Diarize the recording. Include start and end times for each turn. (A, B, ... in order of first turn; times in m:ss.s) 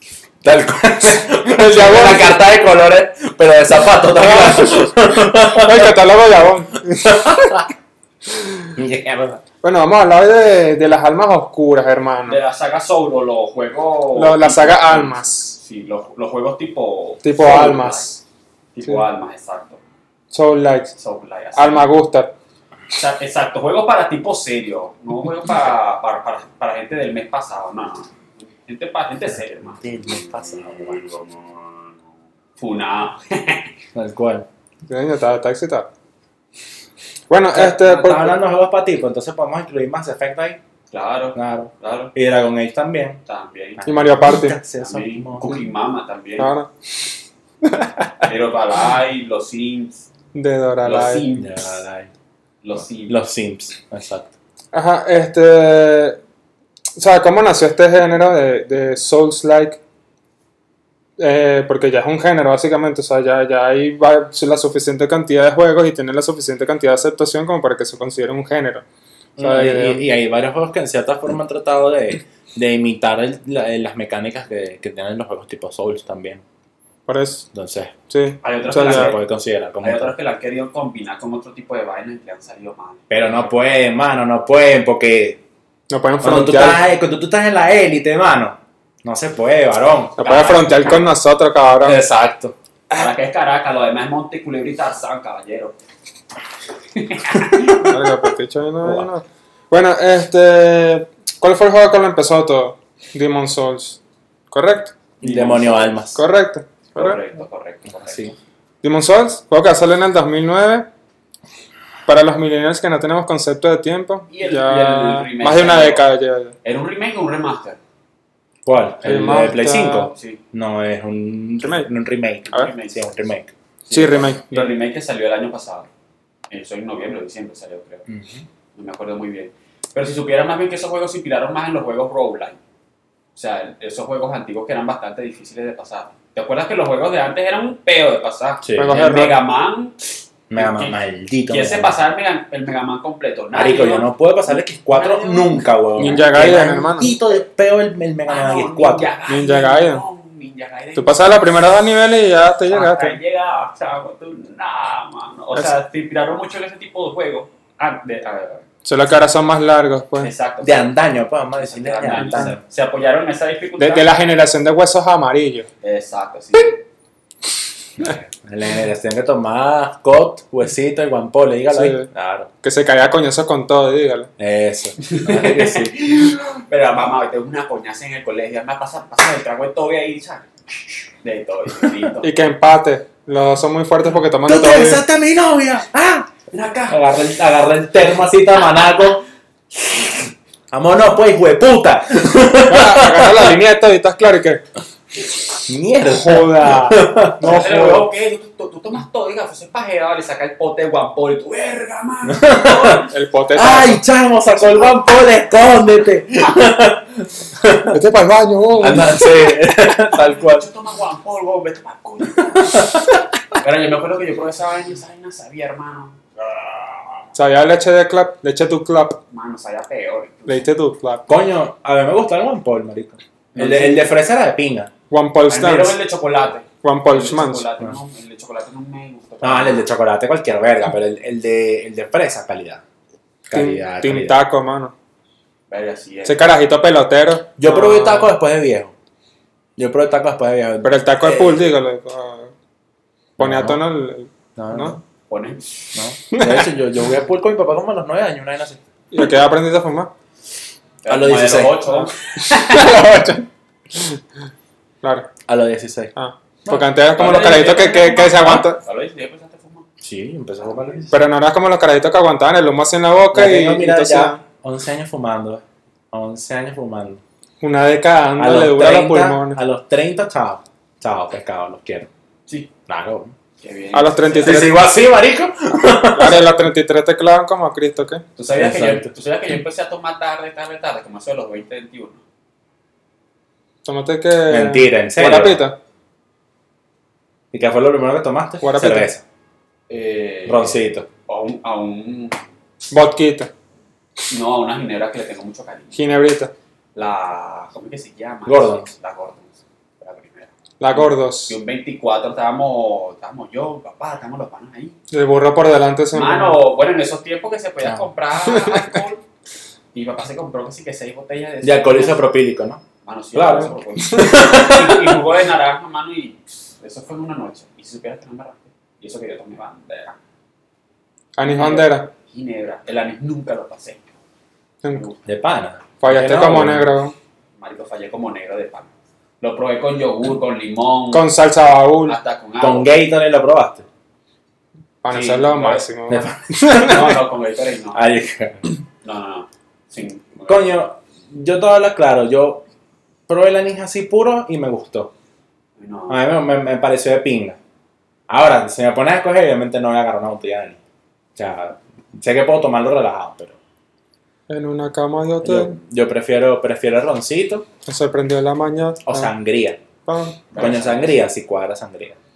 0:00.4-0:06.2 A
0:01.4-0:02.4 B
0:04.2-0:07.6 B
0:07.0-0:07.7 A
0:08.8-0:09.4 A
0:09.6-0:12.4 B
0:12.3-0:18.1 C
0:14.2-0:15.6 B
0:17.2-0:18.2 B
0:18.7-0:19.8 C
0:20.3-0:20.9 B
0:21.0-0:21.9 C
0:21.6-0:22.3 B
0:22.9-0:29.9 C
0:29.8-0:30.8 A
0:30.6-0:31.2 C
0:32.6-0:33.7 C
0:34.0-0:34.5 A
0:34.9-0:35.9 B
0:37.3-0:38.4 B
0:37.5-0:40.6 A
0:40.9-0:42.1 C
0:41.4-0:43.2 A
0:43.3-0:43.8 C
0:43.8-0:45.6 A
0:43.9-0:44.6 B
0:44.8-0:46.6 C
0:46.4-0:46.7 B
0:48.2-0:50.0 C
0:50.3-0:51.3 B
0:50.8-0:51.8 C
0:51.4-0:52.1 A
0:52.6-0:53.2 C
0:53.1-0:54.3 A
0:54.7-0:56.2 B
0:57.0-0:59.8 B
1:01.2-1:08.8 B
1:09.4-1:16.4 A
1:09.4-1:10.1 B
1:17.1-1:17.5 B
1:17.5-1:18.0 A
1:18.1-1:19.2 B
1:18.4-1:19.2 C
1:18.8-1:20.1 A
1:19.8-1:23.7 C
1:23.1-1:25.4 A
1:25.9-1:26.8 B
1:26.2-1:31.0 A
1:30.2-1:32.0 B
1:30.2-1:31.0 C
1:31.8-1:33.1 A
1:32.9-1:35.8 C
1:36.9-1:37.9 C
1:37.7-1:44.0 B
1:44.5-1:45.0 B
1:45.2-1:46.2 A
1:45.2-1:46.0 C
1:46.2-1:47.2 B
1:47.0-1:48.2 C
1:48.0-1:48.4 A
1:48.8-1:50.9 B
1:52.1-1:56.5 B
1:54.3-1:56.0 C
1:56.6-1:57.8 C
1:58.6-2:03.5 A
1:59.0-2:00.1 B
2:00.1-2:00.4 C
2:01.6-2:01.9 B
2:02.5-2:03.1 C
2:03.9-2:05.9 C
2:03.9-2:04.7 B
2:06.5-2:08.0 C
2:08.1-2:08.4 A
2:08.8-2:12.6 C
2:13.4-2:20.0 C
2:18.6-2:19.0 A
2:18.8-2:19.4 B
2:20.5-2:22.0 A
2:20.6-2:21.0 C
2:21.5-2:26.2 C
2:23.5-2:29.1 A
2:26.0-2:27.1 B
2:28.3-2:31.6 C
2:29.3-2:30.0 B
2:31.0-2:33.2 B
2:32.7-2:38.6 C
2:38.8-2:40.3 B
2:40.2-2:41.0 C
2:40.6-2:42.6 A
2:41.6-2:44.1 C
2:43.8-2:45.7 B
2:45.8-2:46.8 C
2:48.0-2:52.5 A
2:51.7-2:52.1 B
2:52.6-2:54.3 B
2:54.4-2:56.0 A
2:55.0-3:00.5 C
3:01.2-3:02.4 C
3:02.2-3:05.0 B
3:04.5-3:06.3 A
3:06.5-3:07.0 C
3:06.9-3:09.2 A
3:09.8-3:13.6 A
3:12.6-3:14.6 B
3:15.6-3:17.7 A
3:16.0-3:18.1 B
3:17.4-3:23.1 C
3:22.3-3:28.0 A
3:23.1-3:24.0 B
3:27.9-3:29.3 B
3:28.8-3:30.7 A
3:30.1-3:32.9 C
3:32.5-3:33.3 A
3:33.6-3:37.2 C
3:37.4-3:39.2 B
3:39.3-3:40.7 C
3:40.5-3:41.3 B
3:41.3-3:44.9 A
3:43.6-3:44.1 C
3:45.1-3:46.0 B
3:45.5-3:49.9 C
3:46.8-3:47.6 B
3:49.4-3:52.8 A
3:53.5-3:54.4 A
3:53.5-3:54.9 B
3:55.7-3:56.5 C
3:56.3-3:58.3 B
3:57.6-3:58.9 A
3:59.8-4:01.7 A
4:00.8-4:02.5 B
4:03.4-4:03.8 A
4:03.4-4:05.0 B
4:04.6-4:05.0 A
4:05.3-4:05.7 C
4:05.9-4:08.8 A
4:06.3-4:06.7 B
4:09.1-4:10.1 B
4:11.0-4:13.0 C
4:11.1-4:12.1 A
4:12.7-4:13.4 B
4:12.7-4:13.3 A
4:13.9-4:14.2 B
4:15.0-4:15.3 B
4:15.5-4:16.1 A
4:16.2-4:18.8 B
4:17.2-4:19.9 C
4:20.0-4:21.2 A
4:20.7-4:21.0 C
4:21.1-4:24.4 B
4:23.3-4:27.2 A
4:27.6-4:29.6 B
4:28.4-4:32.1 A
4:32.9-4:33.3 A
4:33.6-4:34.7 C
4:33.9-4:34.8 B
4:34.4-4:36.6 A
4:36.1-4:38.2 B
4:38.4-4:42.2 C
4:38.5-4:39.1 A
4:43.8-4:45.8 B
4:44.5-4:45.6 A
4:47.5-4:49.2 A
4:48.6-4:49.1 B
4:49.9-4:52.4 C
4:50.5-4:51.1 A
4:52.9-4:53.5 B
4:54.3-4:56.0 C
4:55.9-4:56.5 B
4:57.0-5:05.0 C
4:58.5-4:58.9 A
5:00.8-5:01.6 B
5:05.1-5:06.6 B
5:06.1-5:09.2 C
5:08.6-5:08.9 B
5:09.9-5:12.2 C
5:11.6-5:12.8 A
5:13.0-5:20.2 C
5:13.3-5:15.2 A
5:21.4-5:22.1 B
5:21.4-5:24.1 C
5:24.9-5:25.2 C
5:25.3-5:26.9 A
5:26.0-5:27.1 B
5:27.6-5:28.9 C
5:29.4-5:31.3 C
5:31.1-5:32.2 B
5:32.1-5:33.0 C
5:32.6-5:33.8 A
5:35.0-5:37.1 B
5:35.1-5:35.9 C
5:36.1-5:37.2 A
5:36.7-5:38.0 C
5:37.9-5:38.7 A
5:39.0-5:40.8 C
5:40.5-5:42.6 A
5:43.3-5:45.1 A
5:45.8-5:46.2 C
5:46.1-5:47.6 A
5:48.3-5:50.8 A
5:51.4-5:53.6 A
5:54.5-5:55.8 B
5:55.4-5:57.7 A
5:57.9-5:59.3 B
5:59.1-5:59.8 A
6:00.1-6:00.4 B
6:00.5-6:01.2 C
6:00.6-6:02.2 A